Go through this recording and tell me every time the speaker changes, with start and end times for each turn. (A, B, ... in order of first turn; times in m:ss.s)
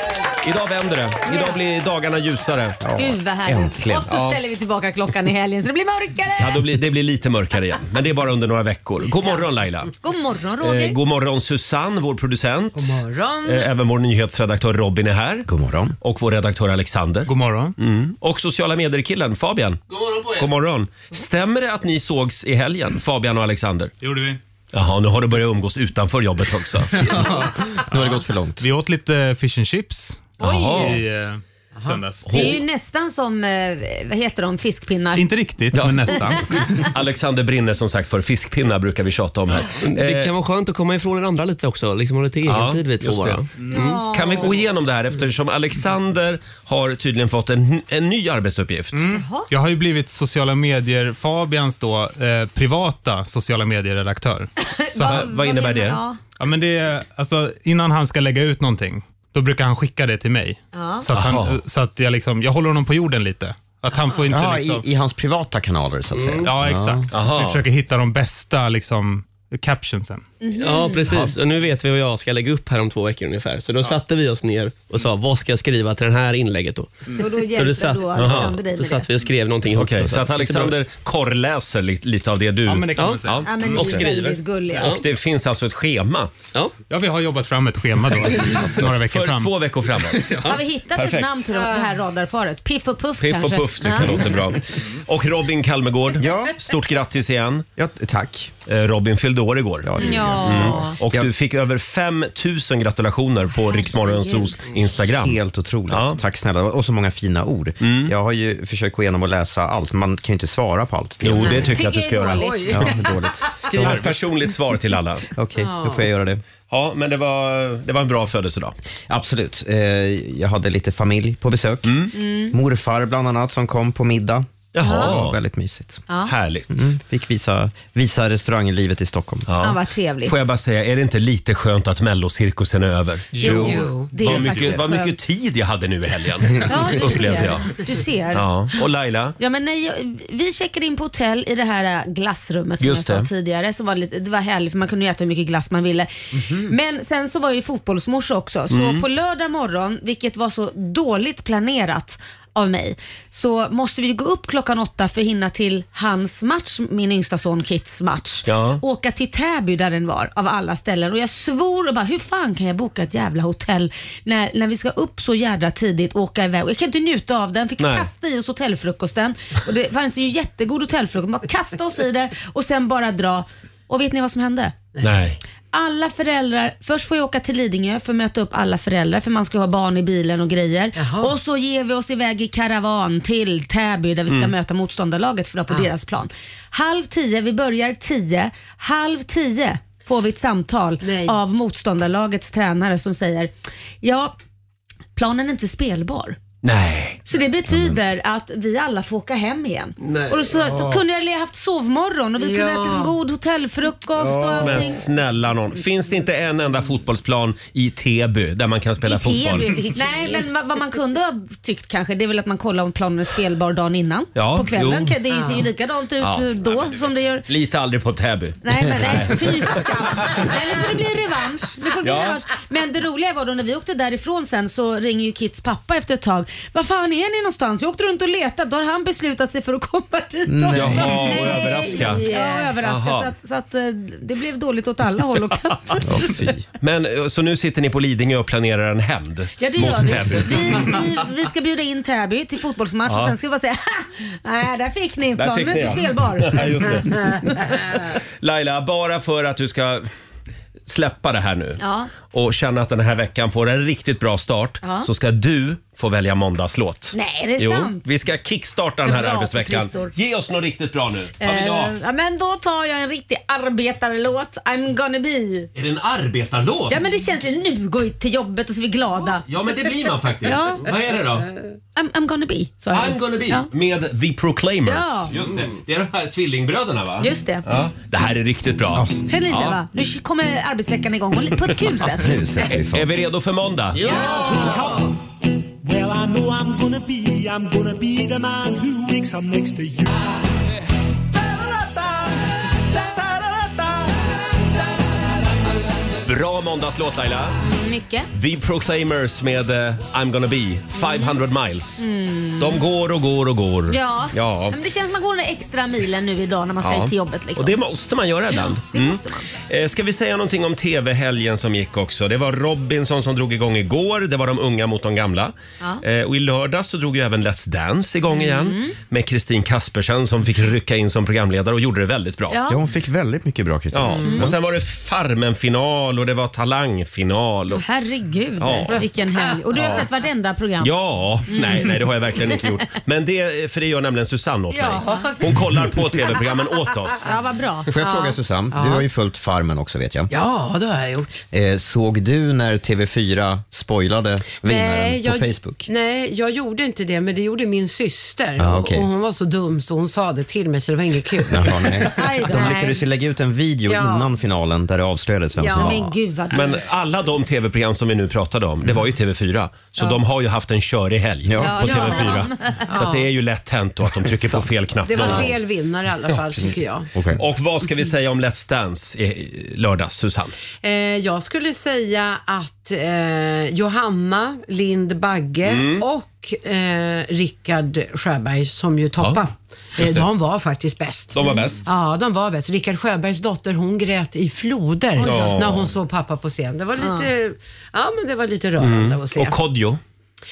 0:00.4-0:02.8 A
0:01.2-0:01.6 B
0:02.8-0:04.1 C
0:03.0-0:06.6 B
0:04.1-0:04.4 A
0:06.4-0:09.9 A
0:10.0-0:11.0 B
0:10.6-0:15.5 A
0:12.7-0:13.6 D
0:15.4-0:16.0 C
0:16.0-0:19.8 A
0:17.2-0:17.7 E
0:19.9-0:20.4 F
0:20.4-0:23.9 A
0:24.0-0:24.4 E
0:24.7-0:27.3 A
0:27.0-0:32.5 E
0:27.4-0:28.6 C
0:30.4-0:31.0 B
0:30.4-0:31.0 A
0:32.3-0:32.6 A
0:32.3-0:35.3 B
0:35.2-0:36.9 E
0:35.7-0:40.3 A
0:39.8-0:44.0 F
0:42.4-0:43.4 A
0:43.6-0:44.0 E
0:43.7-0:44.6 B
0:44.1-0:49.0 A
0:48.9-0:55.3 E
0:49.1-0:49.5 B
0:54.6-0:56.2 B
0:55.0-0:56.0 A
0:56.4-1:04.8 E
1:00.7-1:01.0 B
1:01.1-1:01.6 A
1:04.3-1:07.0 C
1:06.4-1:10.2 E
1:07.1-1:07.6 A
1:10.4-1:11.1 B
1:10.6-1:20.8 F
1:17.2-1:19.0 B
1:18.2-1:18.5 A
1:19.7-1:24.2 A
1:22.6-1:24.0 E
1:23.0-1:25.0 F
1:23.4-1:25.0 B
1:24.8-1:26.3 A
1:26.9-1:29.5 E
1:28.5-1:30.4 A
1:30.4-1:34.3 B
1:30.9-1:31.4 A
1:31.5-1:31.9 D
1:33.2-1:37.6 A
1:36.2-1:36.6 C
1:37.8-1:38.5 C
1:38.6-1:45.4 A
1:39.8-1:41.3 C
1:40.0-1:40.9 B
1:43.7-1:44.5 B
1:45.2-1:51.8 C
1:45.9-1:46.2 A
1:47.8-1:48.1 A
1:51.2-1:52.8 A
1:51.4-1:52.7 B
1:52.3-1:53.5 D
1:52.7-1:54.1 C
1:53.6-1:55.3 A
1:55.3-1:56.4 C
1:55.6-1:56.0 D
1:56.7-1:58.7 A
1:59.1-2:06.0 C
2:01.8-2:02.1 A
2:02.1-2:02.6 B
2:04.7-2:05.4 A
2:04.8-2:05.1 B
2:06.2-2:06.9 A
2:06.7-2:09.5 C
2:09.5-2:17.8 A
2:09.6-2:10.4 B
2:13.4-2:13.7 C
2:13.4-2:15.1 B
2:13.4-2:14.6 D
2:16.6-2:18.5 B
2:18.3-2:19.4 A
2:19.4-2:54.8 B
2:22.8-2:23.3 A
2:28.7-2:29.0 A
2:38.4-2:38.8 A
2:47.8-2:48.1 A
2:55.0-2:55.4 A
2:55.7-3:14.3 B
3:01.0-3:01.3 D
3:11.0-3:11.4 D
3:15.2-3:16.4 B
3:16.6-3:17.2 A
3:17.2-3:25.0 B
3:17.7-3:18.0 C
3:20.0-3:20.3 D
3:22.4-3:23.2 D
3:24.2-3:24.9 C
3:24.6-3:29.9 A
3:29.0-3:37.5 B
3:34.3-3:35.2 A
3:35.3-3:35.7 D
3:36.2-3:40.8 A
3:38.6-3:56.3 B
3:42.0-3:42.4 A
3:50.5-3:51.4 C
3:50.7-3:52.2 A
3:51.8-3:52.7 D
3:52.8-3:53.3 A
3:56.0-3:56.6 C
3:56.8-4:01.1 A
3:59.6-4:07.8 B
4:03.1-4:03.3 A
4:05.4-4:10.1 A
4:10.9-4:22.0 A
4:11.8-4:12.1 B
4:14.8-4:15.1 B
4:17.1-4:18.0 B
4:19.0-4:20.1 B
4:21.4-4:25.7 B
4:25.7-4:27.0 A
4:26.9-4:29.4 B
4:29.3-4:31.5 A
4:30.4-4:30.9 B
4:31.9-4:33.7 B
4:32.9-4:39.8 A
4:34.8-4:35.3 B
4:37.2-4:37.6 B
4:39.2-4:42.3 B
4:42.2-4:43.1 C
4:42.7-4:45.0 A
4:44.0-4:44.7 B
4:45.8-4:49.8 G
4:56.2-4:57.6 A
4:57.6-4:58.3 B
4:58.3-5:02.0 A
5:01.0-5:01.4 B
5:02.0-5:02.8 B
5:02.6-5:04.8 A
5:03.9-5:07.8 B
5:06.8-5:22.6 A
5:08.5-5:09.5 B
5:18.3-5:19.0 B
5:22.5-5:22.8 B
5:22.7-5:24.6 C
5:23.9-5:27.8 A
5:27.7-5:30.9 B
5:28.6-5:29.0 A
5:29.8-5:30.1 A
5:30.8-5:37.2 A
5:31.5-5:32.8 B
5:34.7-5:35.2 B
5:34.9-5:35.9 D
5:37.2-5:37.9 B
5:37.9-5:40.3 C
5:38.0-5:39.0 D
5:40.3-5:41.3 D
5:41.5-5:45.9 C
5:44.6-5:52.8 D
5:48.6-5:49.1 C
5:51.5-5:56.1 C
5:52.2-5:53.0 B
5:53.9-5:54.3 D
5:55.6-5:56.0 D
5:55.6-5:56.7 B
5:56.5-6:05.6 A
6:01.4-6:02.0 C
6:01.6-6:02.9 B
6:01.8-6:03.2 D
6:05.0-6:07.1 D
6:07.1-6:07.4 C
6:07.4-6:10.6 A
6:10.8-6:29.6 D
6:15.6-6:16.0 A
6:20.0-6:20.2 A
6:21.3-6:21.9 A
6:25.2-6:25.6 B
6:25.2-6:25.9 A
6:27.0-6:27.3 B
6:28.8-6:30.0 A